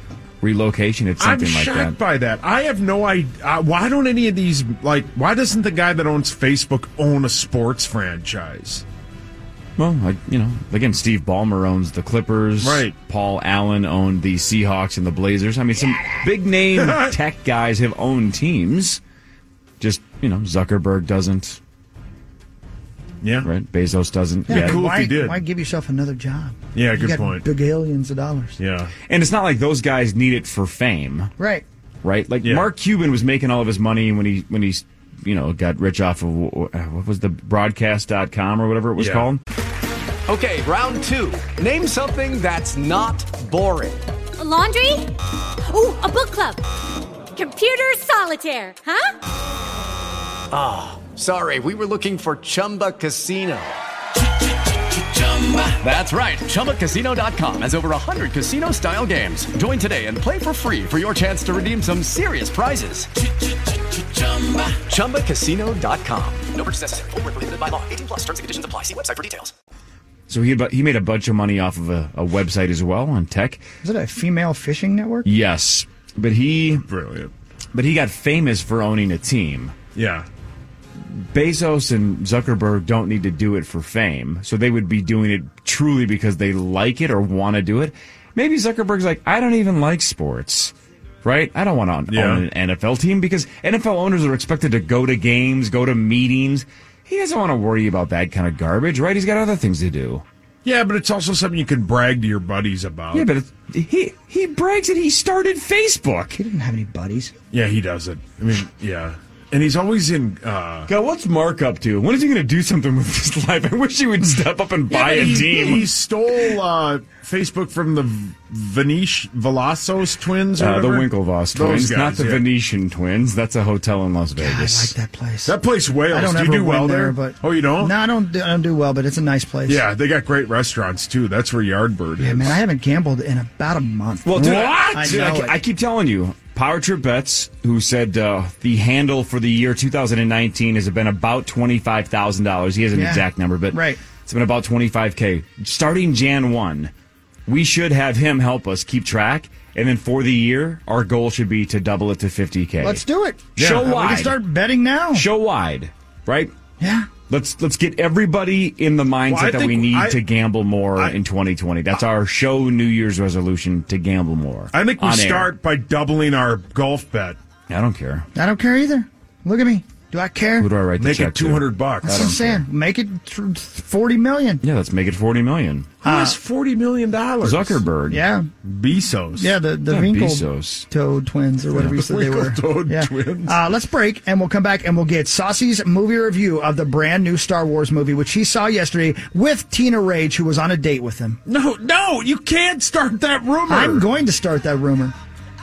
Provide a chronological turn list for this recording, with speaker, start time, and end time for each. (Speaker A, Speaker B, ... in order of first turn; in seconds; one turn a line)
Speaker A: 0.4-2.0
Speaker B: 1.2-8.8
Speaker A: 9.8-19.0
Speaker B: 12.6-12.9
Speaker B: 16.8-17.1
Speaker A: 19.8-21.6
Speaker B: 23.2-23.5
Speaker A: 23.4-24.8
Speaker B: 24.5-25.4
Speaker C: 24.5-28.6
Speaker B: 26.7-27.4
Speaker B: 28.6-28.9
Speaker A: 29.1-31.3
Speaker C: 31.4-31.6
Speaker A: 32.0-39.4
Speaker B: 39.0-39.3
Speaker D: 40.3-44.0
Speaker E: 44.4-45.1
Speaker E: 45.7-46.6
Speaker E: 47.3-49.1
Speaker D: 50.5-53.7
Speaker D: 55.0-63.1
Speaker D: 64.1-69.5
Speaker A: 70.3-73.6
Speaker C: 73.8-75.3
Speaker A: 75.2-76.9
Speaker B: 76.9-77.3
Speaker A: 77.7-79.7
Speaker B: 79.9-80.3
Speaker A: 81.1-90.7
Speaker A: 91.2-100.2
Speaker B: 92.1-92.4
Speaker B: 100.6-103.3
Speaker A: 103.1-106.4
Speaker C: 106.3-107.3
Speaker B: 107.5-110.9
Speaker A: 110.9-115.9
Speaker B: 114.9-122.4
Speaker C: 115.3-115.6
Speaker A: 120.6-124.9
Speaker C: 124.4-125.5
Speaker B: 125.4-127.9
Speaker C: 126.1-129.8
Speaker B: 129.7-132.6
Speaker C: 132.2-135.6
Speaker A: 134.2-146.9
Speaker B: 134.3-135.3
Speaker C: 142.9-144.0
Speaker A: 147.5-153.0
Speaker C: 152.8-155.2
Speaker A: 153.6-154.4
Speaker B: 153.6-153.9
Speaker A: 155.1-156.5
Speaker C: 156.8-157.1
Speaker A: 157.3-165.5
Speaker B: 159.3-160.2
Speaker B: 164.7-167.4
Speaker A: 167.7-168.3
Speaker C: 168.3-170.7
Speaker A: 170.6-172.6
Speaker B: 171.0-172.4
Speaker C: 172.0-174.6
Speaker A: 174.6-175.9
Speaker B: 176.0-177.8
Speaker C: 176.0-176.4
Speaker A: 177.4-178.2
Speaker C: 178.1-178.5
Speaker B: 178.6-179.5
Speaker C: 179.4-191.4
Speaker A: 179.9-180.9
Speaker B: 181.7-183.6
Speaker B: 191.4-194.0
Speaker C: 193.7-195.1